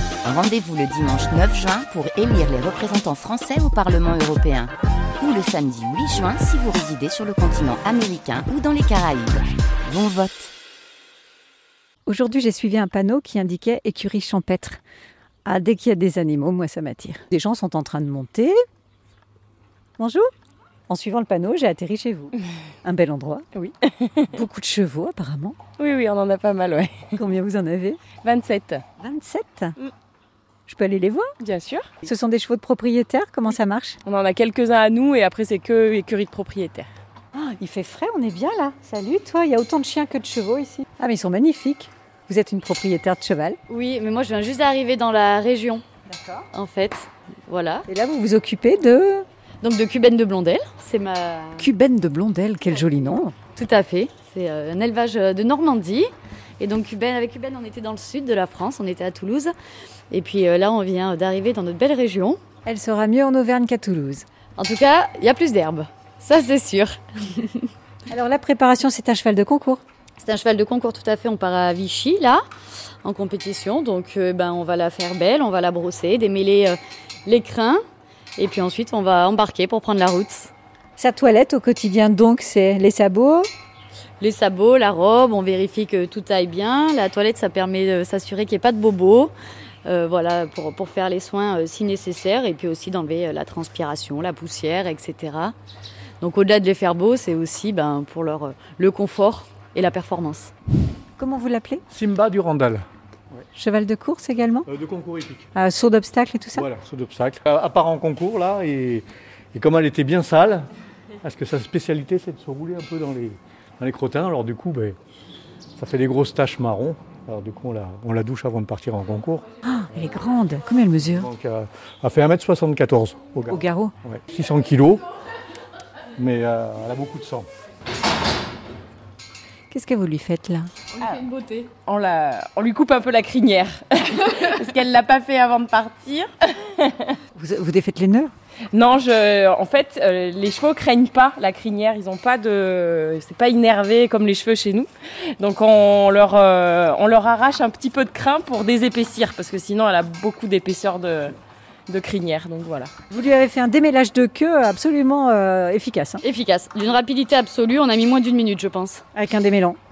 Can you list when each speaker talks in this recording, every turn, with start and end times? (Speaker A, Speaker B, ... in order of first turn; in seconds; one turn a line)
Speaker A: 0.2-10.5
Speaker B: 12.1-14.8
Speaker B: 15.4-18.6
Speaker B: 20.0-20.3
Speaker B: 20.9-23.4
Speaker C: 23.5-24.3
Speaker B: 24.3-25.6
Speaker C: 25.8-27.1
Speaker B: 27.2-28.0
Speaker C: 28.2-28.8
Speaker B: 29.0-29.8
Speaker B: 30.7-31.3
Speaker C: 31.4-31.9
Speaker B: 32.0-34.0
Speaker C: 34.0-36.9
Speaker B: 37.3-43.6
Speaker D: 43.7-45.8
Speaker B: 46.1-46.4
Speaker D: 46.5-47.9
Speaker B: 47.9-49.2
Speaker D: 49.6-51.7
Speaker B: 51.6-53.4
Speaker D: 53.5-56.1
Speaker D: 56.6-59.5
Speaker D: 60.1-62.4
Speaker B: 62.6-64.2
Speaker D: 64.6-67.7
Speaker B: 68.1-69.8
Speaker D: 70.2-72.4
Speaker D: 73.0-77.8
Speaker D: 78.4-80.5
Speaker B: 81.0-83.5
Speaker D: 84.2-89.3
Speaker D: 89.8-95.5
Speaker D: 96.2-100.5
Speaker B: 101.2-101.8
Speaker E: 101.9-102.8
Speaker B: 103.5-104.7
Speaker E: 104.7-105.5
Speaker B: 105.5-106.7
Speaker E: 106.5-110.7
Speaker E: 111.2-115.0
Speaker E: 115.8-119.4
Speaker B: 119.6-121.3
Speaker E: 121.1-125.0
Speaker B: 123.5-123.9
Speaker E: 126.2-127.5
Speaker B: 129.7-130.7
Speaker D: 130.9-131.7
Speaker C: 131.8-137.2
Speaker B: 137.3-138.3
Speaker C: 138.7-151.3
Speaker C: 151.9-152.9
Speaker B: 153.1-156.2
Speaker D: 156.2-159.0
Speaker B: 159.1-159.8